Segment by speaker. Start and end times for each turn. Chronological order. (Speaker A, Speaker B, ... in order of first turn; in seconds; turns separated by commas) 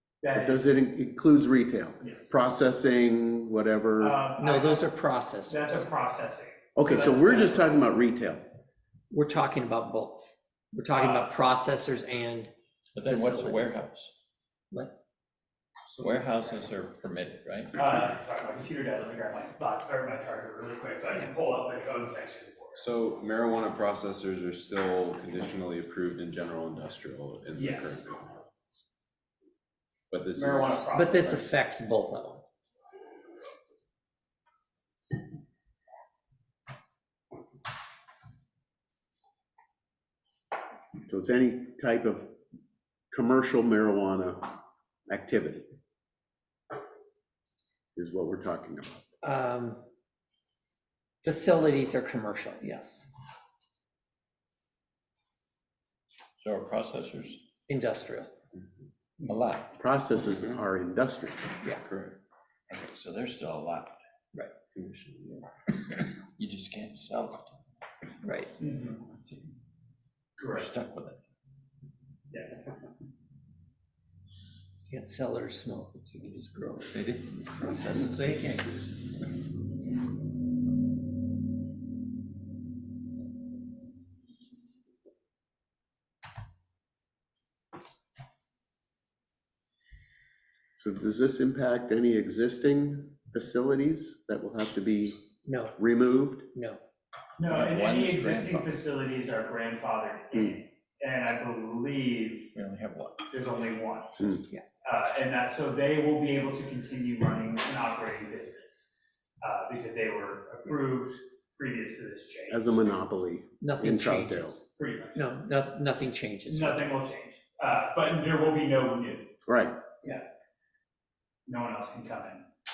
Speaker A: 0.2-0.7, Speaker B: 0.3-4.2, Speaker A: 2.0-2.3, Speaker A: 4.0-4.9, Speaker C: 4.4-5.9, Speaker A: 5.5-7.8, Speaker B: 6.8-8.5, Speaker C: 9.1-13.8, Speaker A: 10.9-11.3, Speaker D: 12.9-14.1, Speaker D: 16.0-17.7, Speaker A: 17.8-22.9, Speaker E: 22.8-28.3, Speaker A: 27.6-28.0, Speaker E: 30.1-30.9, Speaker A: 30.4-31.5, Speaker C: 30.9-32.4, Speaker B: 41.1-42.4, Speaker B: 43.1-45.7, Speaker B: 48.0-49.0, Speaker C: 49.2-49.8, Speaker C: 51.2-53.1, Speaker D: 56.4-57.4, Speaker C: 57.7-58.3, Speaker D: 59.2-59.8, Speaker B: 59.8-61.4, Speaker D: 61.7-62.2, Speaker D: 62.7-64.0, Speaker D: 66.0-67.6, Speaker C: 68.2-68.5, Speaker A: 68.6-69.1, Speaker D: 69.2-69.5, Speaker A: 70.4-70.7, Speaker D: 70.5-71.2, Speaker A: 72.3-72.6, Speaker C: 74.9-77.0, Speaker D: 76.9-78.9, Speaker B: 90.8-96.5, Speaker C: 95.5-95.8, Speaker C: 96.5-96.8, Speaker A: 97.4-102.5, Speaker D: 97.4-98.7, Speaker D: 102.5-103.2, Speaker A: 103.3-108.9, Speaker A: 109.4-112.8, Speaker B: 112.5-114.6, Speaker C: 113.6-114.6, Speaker A: 114.8-115.3, Speaker C: 115.2-116.9, Speaker A: 116.5-119.3, Speaker B: 119.5-119.8, Speaker A: 121.5-122.5